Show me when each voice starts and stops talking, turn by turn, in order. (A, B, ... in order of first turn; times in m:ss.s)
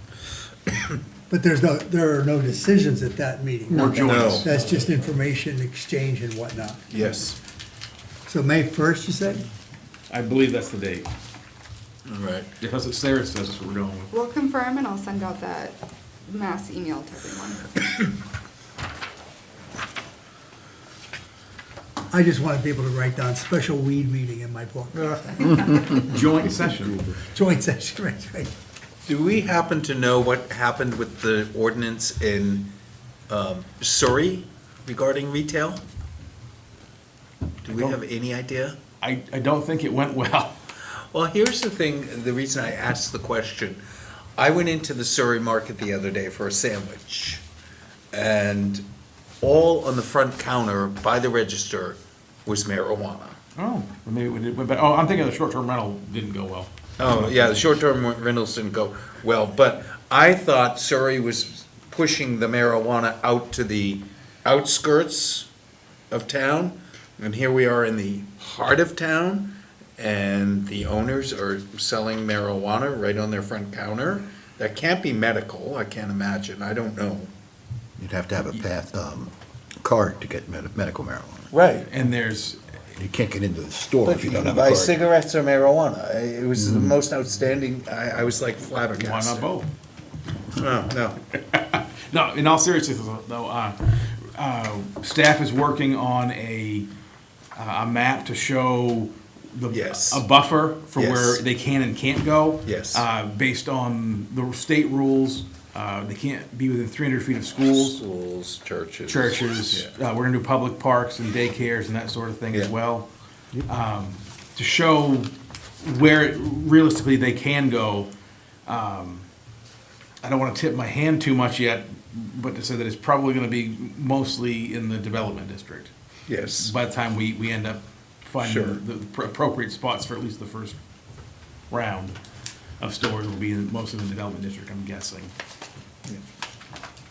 0:01.3-0:06.8 A
0:03.7-0:04.5 B
0:04.0-0:04.5 C
0:06.9-0:07.4 C
0:08.2-0:09.4 A
0:10.1-0:11.1 B
0:12.0-0:12.5 C
0:12.6-0:14.1 B
0:14.1-0:18.1 D
0:22.1-0:26.2 A
0:25.6-0:26.0 D
0:26.1-0:27.1 B
0:27.1-0:28.5 A
0:29.0-0:32.7 C
0:33.3-0:35.8 C
0:37.6-0:38.8 C
0:37.7-0:38.0 B
0:39.0-0:40.5 B
0:41.1-0:43.8 C
0:44.4-0:47.4 C
0:48.1-0:48.8 C
0:49.4-0:53.4 C
0:53.6-0:57.5 B
0:57.0-1:05.5 C
1:06.1-1:17.3 C
1:18.0-1:21.5 E
1:21.5-1:21.9 C
1:21.9-1:22.6 B
1:22.9-1:24.9 E
1:24.0-1:29.4 C
1:26.6-1:26.9 E
1:29.0-1:29.7 B
1:30.6-1:31.2 C
1:31.5-1:36.9 B
1:37.6-1:48.0 B
1:39.7-1:40.2 C
1:40.9-1:41.4 C
1:42.6-1:43.0 C
1:47.6-1:49.9 C
1:49.0-1:53.0 B
1:53.6-1:55.3 B
1:55.8-1:58.1 B
1:58.6-1:59.2 B
2:00.2-2:05.9 B
2:06.3-2:06.7 C
2:06.6-2:10.8 B
2:08.4-2:08.8 C
2:11.7-2:12.2 B
2:12.8-2:15.3 B